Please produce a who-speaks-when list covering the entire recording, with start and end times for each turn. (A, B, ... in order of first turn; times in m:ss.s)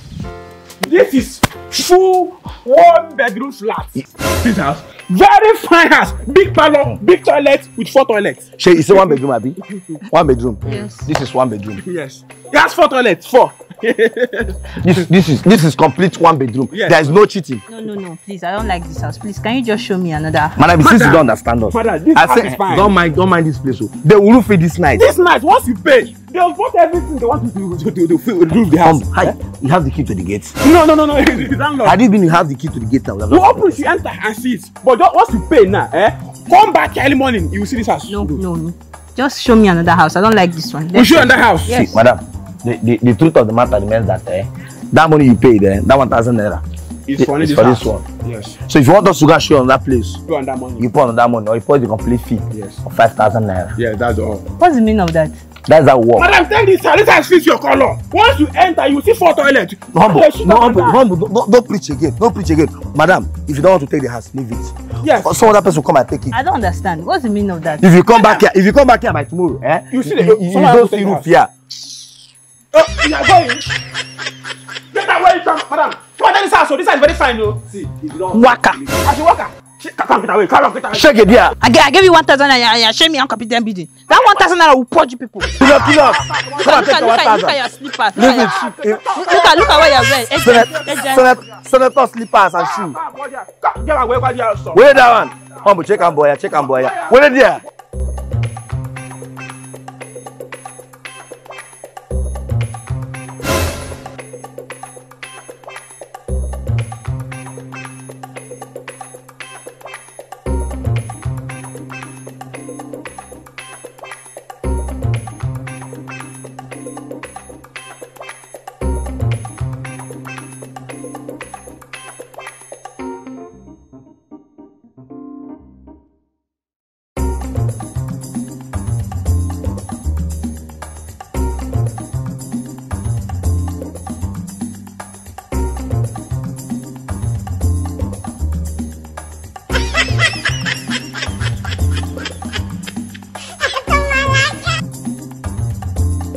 0:00.8-0:09.1 A
0:08.6-0:11.8 B
0:10.7-0:11.1 C
0:11.8-0:15.0 A
0:14.8-0:17.6 B
0:16.7-0:17.1 A
0:17.7-0:20.6 C
0:20.6-0:25.1 B
0:20.8-0:22.9 A
0:24.9-0:29.3 A
0:28.7-0:30.5 B
0:30.6-0:32.0 A
0:31.8-0:33.9 B
0:33.3-0:38.4 A
0:38.1-0:42.0 C
0:40.9-0:41.8 A
0:41.6-0:46.6 B
0:47.0-0:48.6 A
0:47.2-0:48.0 B
0:48.7-0:50.2 B
0:50.3-0:50.9 A
0:50.8-0:53.8 B
0:52.5-0:52.8 A
0:53.8-0:54.5 A
0:54.6-0:55.4 C
0:55.6-0:56.3 B
0:56.2-1:01.0 A
0:59.9-1:06.4 B
1:05.0-1:05.5 A
1:06.3-1:07.8 C
1:07.8-1:11.5 B
1:08.1-1:08.4 A
1:09.9-1:11.3 A
1:12.7-1:13.7 A
1:14.9-1:21.3 A
1:18.3-1:18.8 C
1:20.9-1:21.5 B
1:21.6-1:25.9 C
1:25.6-1:26.9 A
1:25.6-1:29.0 B
1:26.5-1:31.3 C
1:28.2-1:31.2 A
1:30.3-1:33.0 B
1:32.6-1:37.2 A
1:34.7-1:37.6 B